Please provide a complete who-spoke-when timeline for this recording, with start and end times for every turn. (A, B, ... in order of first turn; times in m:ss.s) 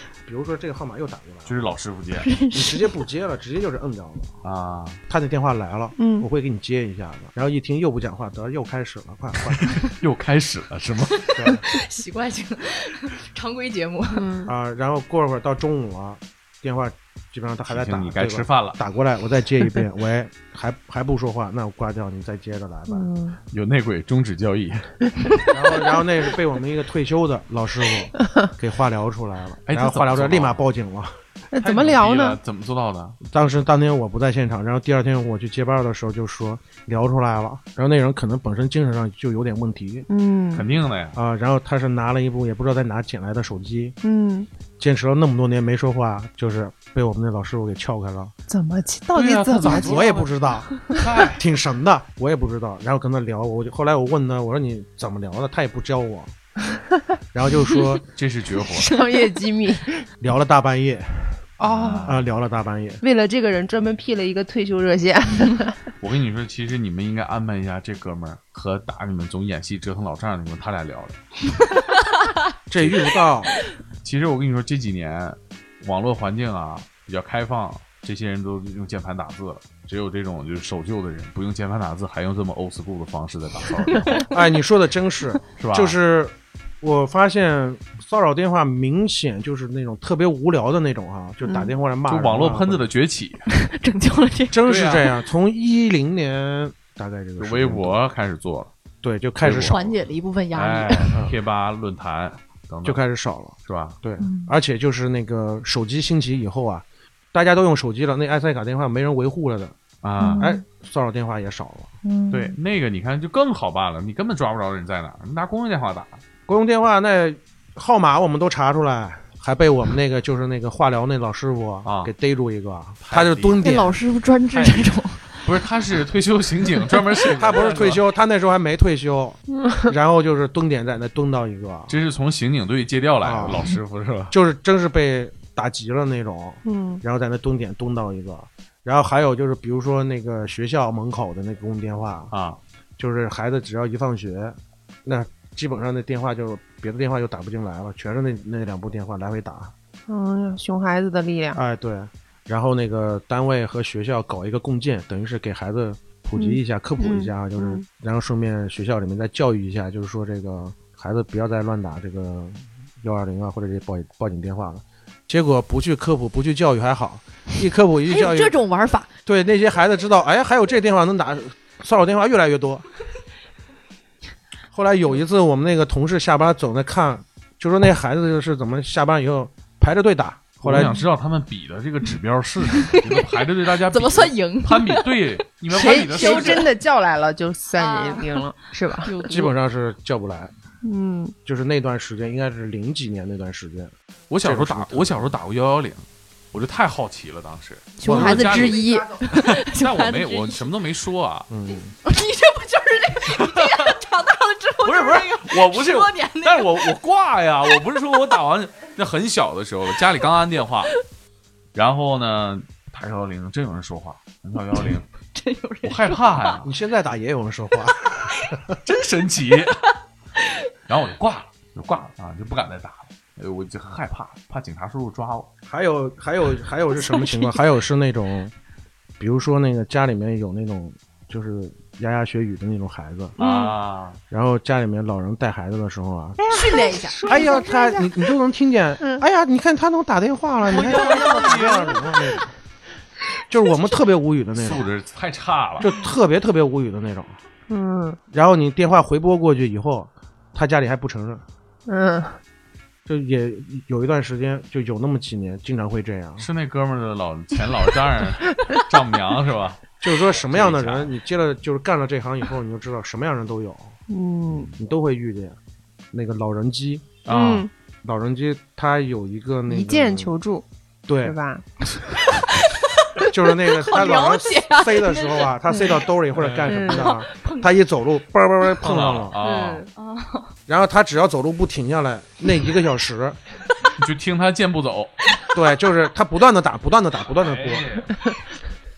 0:00.3-0:01.6 A
0:01.5-0:02.3 B
0:02.2-0:02.9 C
0:02.5-0:04.4 A
0:04.4-0:05.0 B
0:05.1-0:09.7 A
0:06.0-0:06.3 D
0:09.6-0:11.5 B
0:11.1-0:14.2 C
0:11.3-0:11.6 A
0:14.1-0:14.5 D
0:14.5-0:23.1 A
0:17.7-0:18.8 B
0:22.9-0:23.4 D
0:23.5-0:25.0 B
0:25.5-0:31.1 A
0:29.6-0:30.6 B
0:31.5-0:32.4 D
0:31.6-0:33.2 B
0:33.2-0:40.1 A
0:40.1-0:40.7 D
0:40.5-0:41.2 B
0:41.1-0:44.0 A
0:44.0-0:44.5 D
0:44.8-0:48.3 A
0:48.5-0:50.2 D
0:49.1-0:51.4 B
0:49.6-0:50.8 A
0:51.4-0:56.3 A
0:57.3-0:58.0 A
0:58.1-0:59.0 B
0:58.7-1:00.1 D
0:59.0-0:59.3 C
1:00.2-1:01.4 A
1:01.6-1:02.2 D
1:01.6-1:02.2 B
1:02.0-1:03.0 A
1:03.0-1:05.8 D
1:06.0-1:11.2 B
1:12.7-1:13.6 A
1:14.0-1:24.3 B
1:23.9-1:24.3 C
1:24.3-1:32.9 A
1:25.6-1:26.0 B
1:31.5-1:31.7 D
1:32.1-1:33.5 B
1:33.5-1:34.6 C
1:34.5-1:38.0 A
1:34.7-1:35.1 B
1:37.4-1:38.7 B
1:39.0-1:39.8 A
1:39.4-1:40.0 B
1:39.6-1:41.1 C
1:40.5-1:43.0 B
1:42.8-1:49.8 A
1:43.6-1:44.0 B
1:44.2-1:44.5 C
1:50.0-1:50.5 B
1:50.2-1:50.6 C
1:50.4-1:51.9 A
1:52.0-1:52.6 C
1:52.3-1:56.2 B
1:56.5-2:04.0 A
2:01.8-2:02.1 B
2:03.0-2:03.6 B
2:03.6-2:05.4 C
2:04.5-2:08.0 B
2:07.4-2:12.0 A
2:11.9-2:14.3 B
2:13.2-2:13.6 A
2:14.3-2:22.3 A
2:16.6-2:17.0 D
2:22.3-2:22.6 B
2:23.0-2:29.7 A
2:30.1-2:31.6 D
2:31.5-2:48.6 A
2:36.4-2:37.8 D
2:48.1-2:49.1 C
2:49.3-2:52.8 A
2:54.7-3:00.9 A
3:00.6-3:06.7 B
3:02.8-3:06.7 C
3:05.7-3:09.2 D
3:07.8-3:09.5 C
3:09.3-3:10.5 A
3:10.8-3:11.4 D
3:11.4-3:13.9 A
3:14.3-3:21.5 B
3:14.4-3:15.3 A
3:18.0-3:20.6 C
3:18.0-3:18.8 A
3:21.5-3:22.0 A
3:22.0-3:26.9 C
3:23.3-3:24.0 B
3:24.8-3:31.0 B
3:31.8-3:35.1 B
3:35.3-3:36.6 C
3:35.8-3:36.7 B
3:36.6-3:38.8 A
3:38.8-3:39.8 B
3:40.9-3:45.5 B
3:45.7-3:48.5 A
3:47.0-3:47.5 C
3:49.2-3:53.4 A
3:53.4-3:53.8 C
3:53.4-3:54.2 B
3:54.3-3:56.4 A
3:56.4-3:58.3 D
3:56.5-3:57.4 C
3:57.3-4:02.5 A
4:00.6-4:02.0 B
4:00.8-4:02.0 D
4:03.5-4:04.9 A
4:04.5-4:05.9 B
4:05.8-4:07.4 A
4:07.7-4:08.2 D
4:08.3-4:11.4 A
4:11.9-4:12.4 D
4:13.1-4:16.5 A
4:16.4-4:21.1 B
4:20.0-4:24.0 A
4:24.1-4:24.7 D
4:24.5-4:24.8 B
4:24.8-4:25.6 A
4:26.1-4:27.2 A
4:27.3-4:27.7 B
4:27.3-4:27.7 D
4:28.0-4:30.3 A
4:29.7-4:30.6 D
4:31.1-4:31.4 A
4:31.2-4:31.6 D
4:33.2-4:35.6 C
4:33.3-4:39.4 A
4:35.7-4:36.0 D
4:36.3-4:36.9 B
4:36.7-4:37.2 D
4:36.9-4:37.7 C
4:38.8-4:39.9 B
4:39.4-4:39.9 D
4:40.0-4:40.5 C
4:40.7-4:43.4 A
4:44.0-4:45.1 B
4:45.5-4:47.9 A
4:47.3-4:48.1 B